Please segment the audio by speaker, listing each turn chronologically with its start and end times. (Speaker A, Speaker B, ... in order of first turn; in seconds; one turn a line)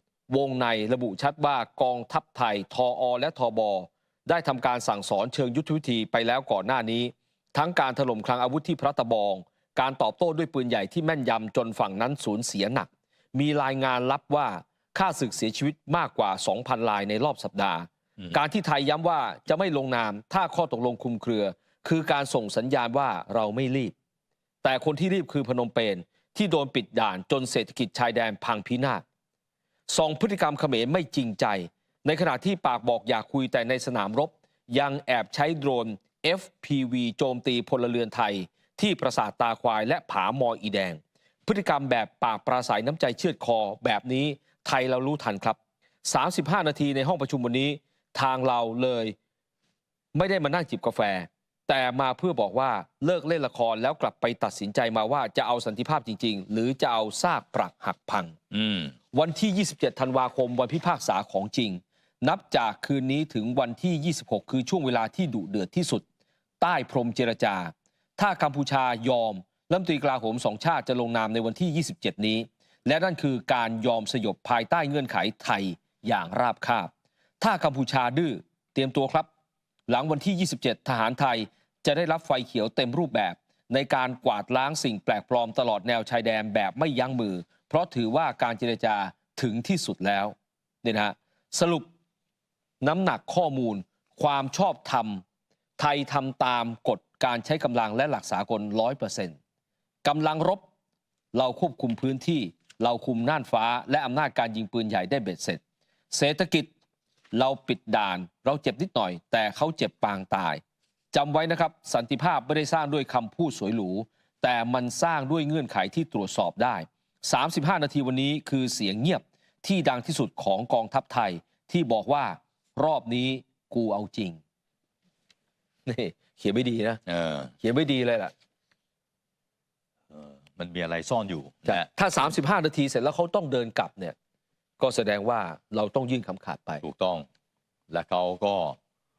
Speaker A: 0.3-23.9
Speaker A: 24.6-29.0
Speaker A: 29.9-49.1
Speaker A: 50.1-58.4
Speaker B: 58.5-58.9
Speaker A: 59.1-66.0
Speaker A: 66.6-79.3
Speaker A: 79.9-91.9
Speaker A: 92.8-95.2
Speaker A: 95.8-99.4
Speaker A: 100.0-100.7
Speaker A: 101.3-106.7
Speaker A: 107.3-110.6
Speaker A: 111.1-124.4
Speaker A: 125.9-127.0
Speaker B: 127.0-127.5
Speaker A: 127.6-128.3
Speaker B: 130.1-131.9
Speaker A: 131.7-134.1
Speaker A: 134.8-136.8
Speaker B: 136.8-137.2
Speaker B: 137.9-138.8